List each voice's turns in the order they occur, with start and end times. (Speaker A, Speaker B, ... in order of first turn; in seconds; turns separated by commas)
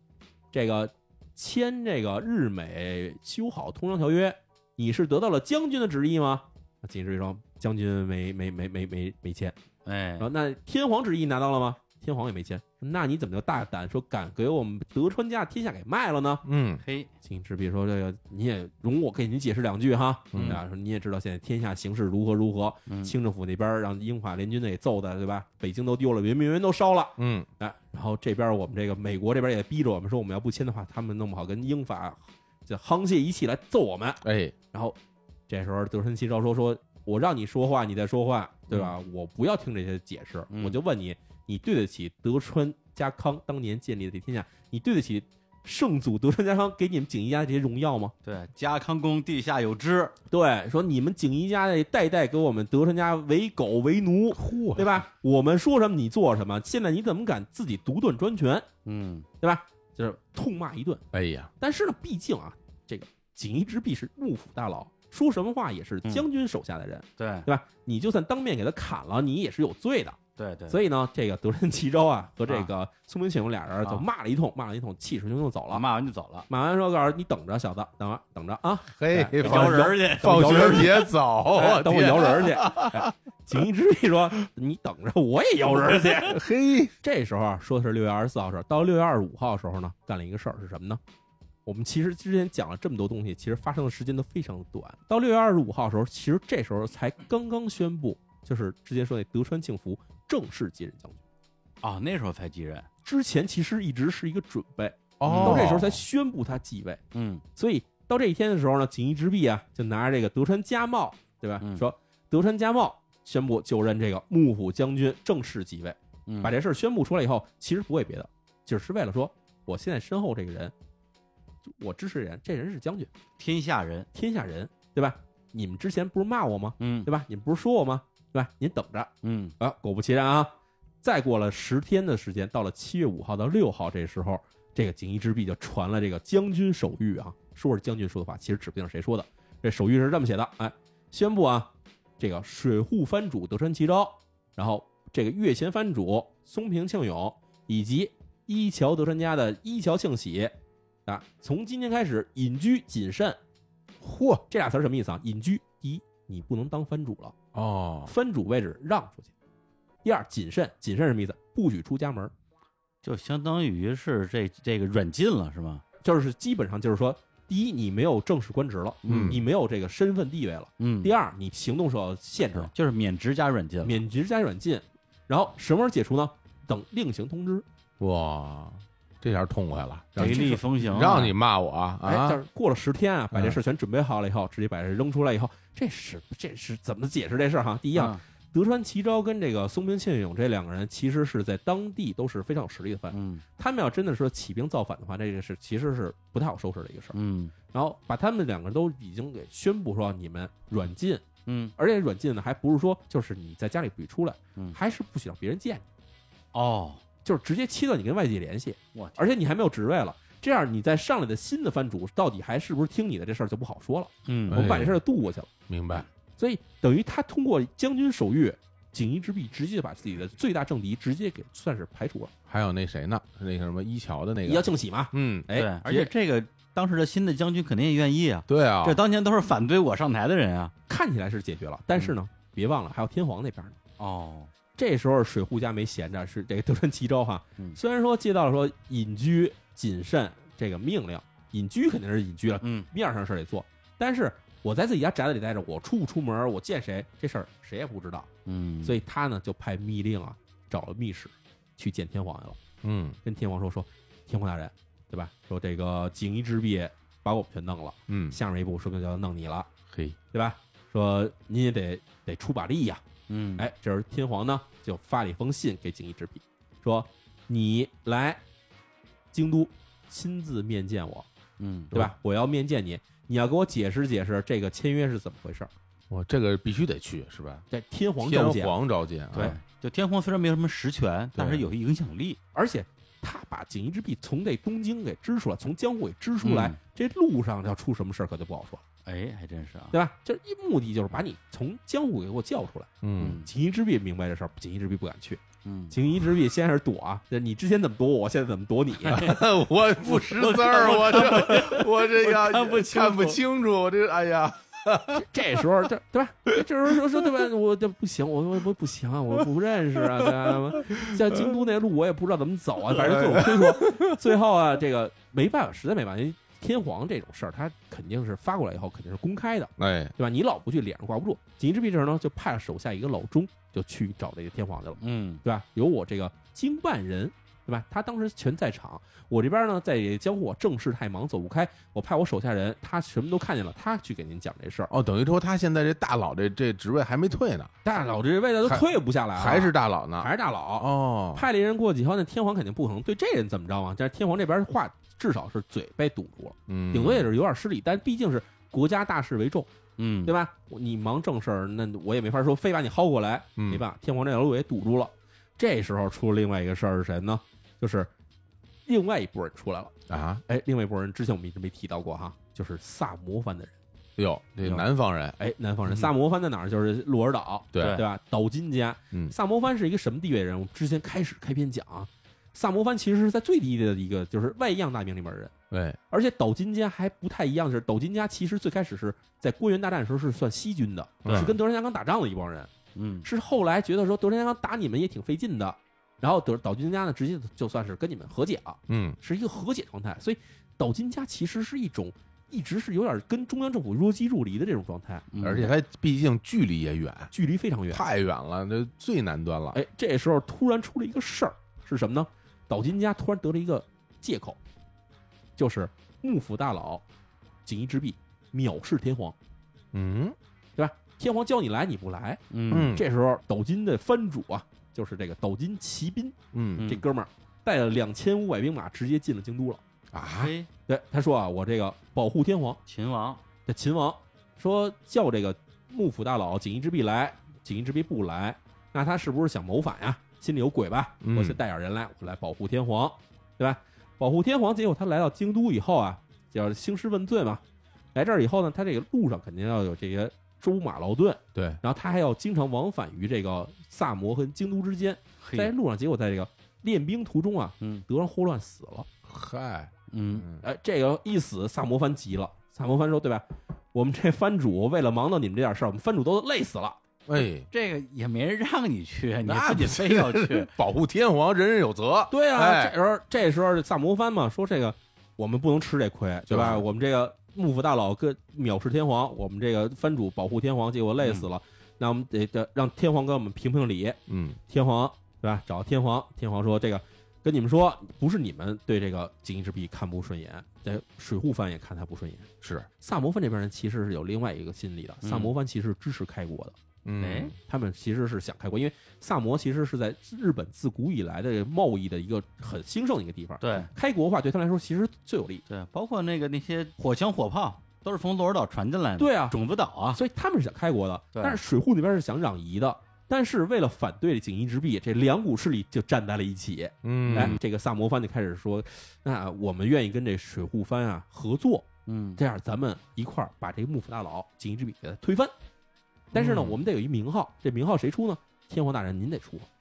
Speaker A: 0.5-9.6, Speaker B: 9.8-10.3, Speaker A: 10.2-16.4, Speaker C: 16.4-16.8, Speaker B: 16.8-17.1, Speaker A: 17.2-34.2, Speaker C: 20.3-20.6, Speaker B: 20.3-20.6, Speaker B: 22.9-23.1, Speaker C: 27.2-27.5, Speaker C: 34.2-34.5, Speaker A: 35.5-48.1, Speaker B: 40.5-40.8, Speaker B: 48.2-50.1, Speaker A: 50.3-58.7, Speaker C: 54.4-55.0, Speaker B: 58.8-59.3, Speaker A: 59.4-61.0, Speaker C: 61.1-61.5, Speaker A: 61.6-75.8, Speaker B: 67.2-67.5, Speaker B: 70.4-70.8, Speaker B: 75.7-76.5, Speaker A: 76.5-86.4, Speaker C: 78.9-83.1, Speaker B: 79.4-81.1, Speaker C: 86.2-86.9, Speaker A: 87.0-91.0, Speaker A: 91.7-101.2, Speaker B: 101.8-102.9, Speaker A: 103.0-107.0, Speaker C: 105.2-106.0, Speaker B: 105.2-105.8, Speaker B: 107.1-107.4, Speaker A: 107.5-120.7, Speaker B: 111.6-111.8, Speaker B: 116.3-116.5, Speaker A: 121.7-123.1, Speaker B: 123.4-124.1, Speaker A: 124.1-150.5, Speaker B: 126.8-127.1, Speaker B: 129.2-129.5, Speaker A: 151.1-153.4, Speaker C: 154.0-154.4, Speaker A: 154.5-157.3, Speaker C: 157.5-158.1, Speaker A: 158.1-159.3, Speaker A: 160.0-162.3, Speaker B: 163.0-165.8, Speaker A: 166.0-172.7, Speaker B: 169.0-169.4, Speaker C: 169.1-169.4, Speaker B: 170.8-171.1, Speaker B: 172.6-174.0, Speaker A: 173.8-177.6, Speaker C: 178.0-182.4, Speaker B: 180.2-181.3, Speaker A: 180.2-180.6, Speaker A: 182.0-197.2, Speaker C: 183.3-183.6, Speaker B: 187.9-188.2, Speaker B: 193.1-193.4, Speaker B: 197.1-197.5, Speaker A: 197.7-201.2, Speaker B: 201.4-201.7, Speaker A: 201.8-205.8, Speaker B: 206.5-207.0, Speaker A: 207.2-222.3, Speaker B: 208.9-209.2, Speaker B: 214.2-214.6, Speaker C: 214.5-215.0, Speaker C: 215.7-216.1, Speaker C: 222.5-225.5, Speaker A: 224.4-226.1, Speaker B: 225.5-230.7, Speaker C: 228.5-229.0, Speaker A: 230.9-233.8, Speaker B: 234.0-234.5, Speaker A: 234.8-248.3, Speaker B: 242.6-242.9, Speaker B: 248.4-249.0, Speaker A: 248.8-252.6, Speaker C: 252.8-253.2, Speaker A: 253.2-259.7, Speaker C: 258.1-258.4, Speaker C: 259.9-260.2, Speaker A: 260.3-263.0, Speaker B: 263.3-263.6, Speaker A: 263.6-268.4, Speaker A: 269.3-271.3, Speaker B: 271.6-272.1, Speaker A: 271.9-275.7, Speaker C: 276.1-277.6, Speaker A: 277.7-278.7, Speaker C: 278.2-279.6, Speaker B: 279.3-282.4, Speaker C: 281.3-281.6, Speaker A: 282.5-288.8, Speaker B: 286.4-286.8, Speaker B: 289.0-289.9, Speaker A: 289.9-299.2, Speaker C: 293.0-293.4, Speaker B: 293.2-293.5, Speaker B: 295.6-295.9, Speaker B: 299.1-299.4, Speaker C: 299.1-305.2, Speaker B: 300.0-303.4, Speaker A: 305.1-334.9, Speaker C: 313.0-314.1, Speaker C: 319.8-320.1, Speaker B: 325.0-325.4, Speaker C: 334.9-337.7, Speaker A: 337.8-349.7, Speaker C: 339.4-341.4, Speaker C: 346.7-347.3, Speaker B: 350.0-350.3, Speaker A: 350.2-358.1, Speaker C: 353.6-353.8, Speaker A: 358.9-359.9, Speaker C: 360.1-360.4, Speaker A: 360.5-363.7, Speaker C: 364.2-365.4, Speaker A: 365.4-375.5, Speaker C: 367.7-368.0, Speaker B: 367.8-368.0, Speaker C: 375.7-376.0, Speaker A: 376.1-382.7, Speaker C: 381.2-381.6, Speaker B: 381.2-381.6, Speaker B: 382.9-383.3, Speaker A: 383.2-395.3, Speaker C: 388.9-389.2, Speaker B: 395.3-395.7, Speaker C: 395.4-397.3, Speaker A: 397.3-398.0, Speaker C: 397.9-399.8, Speaker A: 399.7-404.6, Speaker A: 405.6-407.0, Speaker A: 407.6-409.3, Speaker C: 409.9-410.4, Speaker A: 410.8-419.8, Speaker B: 412.5-413.0, Speaker C: 412.7-413.0, Speaker C: 416.5-416.9, Speaker B: 416.8-417.0, Speaker C: 420.1-420.5, Speaker B: 420.3-420.7, Speaker A: 420.9-422.8, Speaker B: 422.9-423.4, Speaker A: 423.6-437.6, Speaker C: 431.2-431.6, Speaker A: 438.1-449.1, Speaker C: 441.5-441.8, Speaker B: 445.4-445.7, Speaker C: 449.3-450.6, Speaker B: 450.1-450.4, Speaker A: 450.6-457.0, Speaker C: 457.3-457.7, Speaker B: 457.7-460.7, Speaker C: 459.4-462.9, Speaker A: 462.3-482.5, Speaker C: 466.5-466.8, Speaker B: 471.2-471.5, Speaker C: 474.3-474.6, Speaker C: 482.6-482.9, Speaker A: 483.0-486.8, Speaker B: 485.2-485.5, Speaker C: 487.0-487.5, Speaker B: 487.2-487.5, Speaker A: 487.6-495.6, Speaker B: 493.6-493.9, Speaker B: 495.7-500.2, Speaker A: 499.2-499.6, Speaker A: 500.1-515.5, Speaker B: 501.3-501.6, Speaker C: 507.0-507.6, Speaker B: 507.3-507.6, Speaker B: 512.0-512.4, Speaker A: 516.3-519.7, Speaker B: 516.3-516.7